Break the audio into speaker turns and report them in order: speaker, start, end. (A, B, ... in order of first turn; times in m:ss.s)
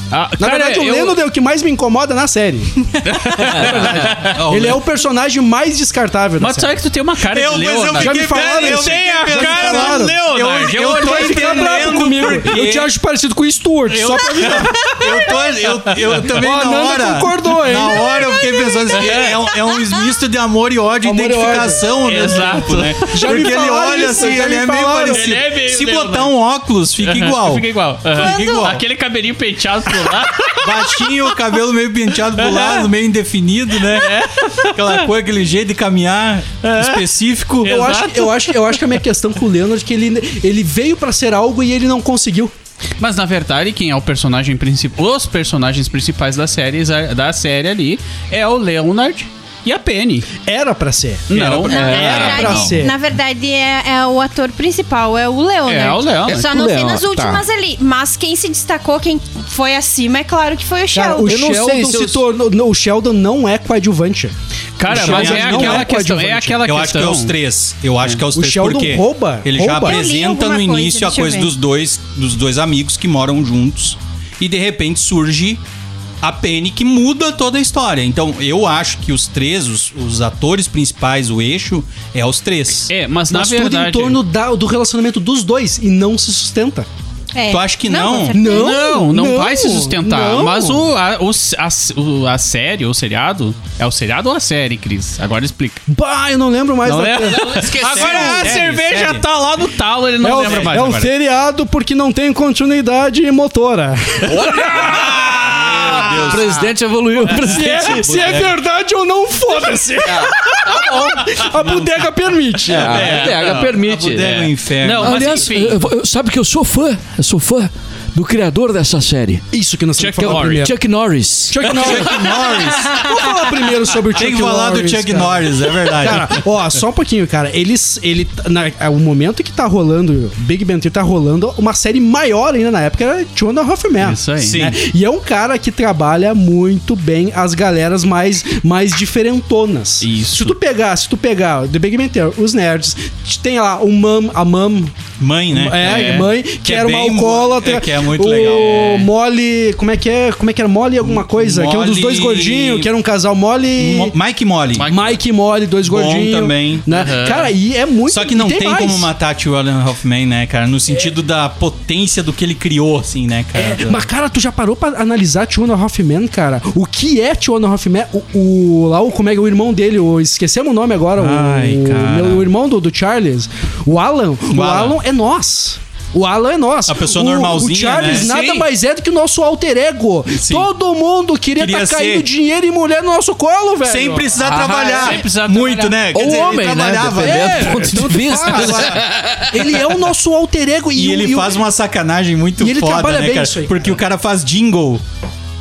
0:00.1-0:01.2 A
0:00.4-0:06.8 B
0:03.0-0:04.4 A
0:03.6-0:04.8 C
0:06.4-0:12.6 A
0:07.3-0:12.9 C
0:07.9-0:10.2 B
0:10.8-0:15.1 B
0:13.9-0:28.8 C
0:13.9-0:14.7 A
0:16.0-0:18.1 B
0:18.1-0:19.0 D
0:18.9-0:19.4 A
0:21.0-0:21.8 B
0:22.0-0:23.6 A
0:23.1-0:25.4 B
0:25.0-0:26.3 A
0:27.0-0:31.3 A
0:28.2-0:28.7 D
0:30.5-0:37.8 C
0:32.3-0:32.9 A
0:33.8-0:35.1 A
0:36.6-0:37.1 A
0:37.6-0:38.8 A
0:37.6-0:42.5 B
0:43.0-0:50.3 A
0:50.4-0:51.4 B
0:51.3-0:52.6 A
0:51.3-0:52.2 C
0:51.7-0:52.8 E
0:51.7-1:01.3 D
0:51.9-0:52.9 B
0:55.7-0:56.5 A
0:56.3-0:57.4 E
1:00.9-1:04.3 B
1:01.2-1:02.2 E
1:04.8-1:07.3 A
1:04.9-1:05.9 C
1:04.9-1:06.6 B
1:06.6-1:15.6 C
1:08.3-1:10.0 B
1:09.8-1:11.5 D
1:16.2-1:22.9 C
1:22.9-1:24.2 A
1:23.3-1:26.9 B
1:27.3-1:28.7 D
1:27.5-1:28.4 C
1:28.3-1:30.9 B
1:28.4-1:35.8 A
1:35.9-1:37.7 B
1:36.8-1:41.1 A
1:37.2-1:38.6 E
1:37.8-1:39.2 C
1:40.2-1:46.1 B
1:44.2-1:48.3 E
1:45.5-1:46.6 C
1:47.2-1:53.1 B
1:47.3-1:48.5 C
1:50.0-1:51.3 E
1:52.7-1:55.8 A
1:52.7-1:54.4 E
1:52.7-1:55.2 C
1:55.0-1:59.4 E
1:59.5-2:00.7 B
2:00.0-2:00.7 A
2:00.2-2:02.0 E
2:01.5-2:24.9 B
2:01.6-2:03.6 A
2:01.7-2:03.0 C
2:04.1-2:06.4 C
2:14.0-2:14.6 A
2:14.4-2:14.8 C
2:20.0-2:20.6 A
2:25.2-2:29.1 C
2:25.5-2:34.1 B
2:31.0-2:32.9 C
2:33.8-2:34.9 C
2:34.7-2:35.2 A
2:34.8-2:39.1 B
2:35.8-2:36.9 C
2:36.9-2:37.5 A
2:38.1-2:44.0 C
2:43.5-3:04.4 B
2:51.2-2:52.5 C
2:54.5-2:55.0 C
2:56.9-2:58.3 C
2:58.2-2:58.7 E
3:00.4-3:00.7 C
3:01.6-3:02.2 C
3:03.8-3:09.0 C
3:04.4-3:05.2 E
3:04.9-3:06.2 A
3:06.1-3:09.5 E
3:07.2-3:11.6 B
3:10.9-3:15.0 C
3:12.6-3:14.0 B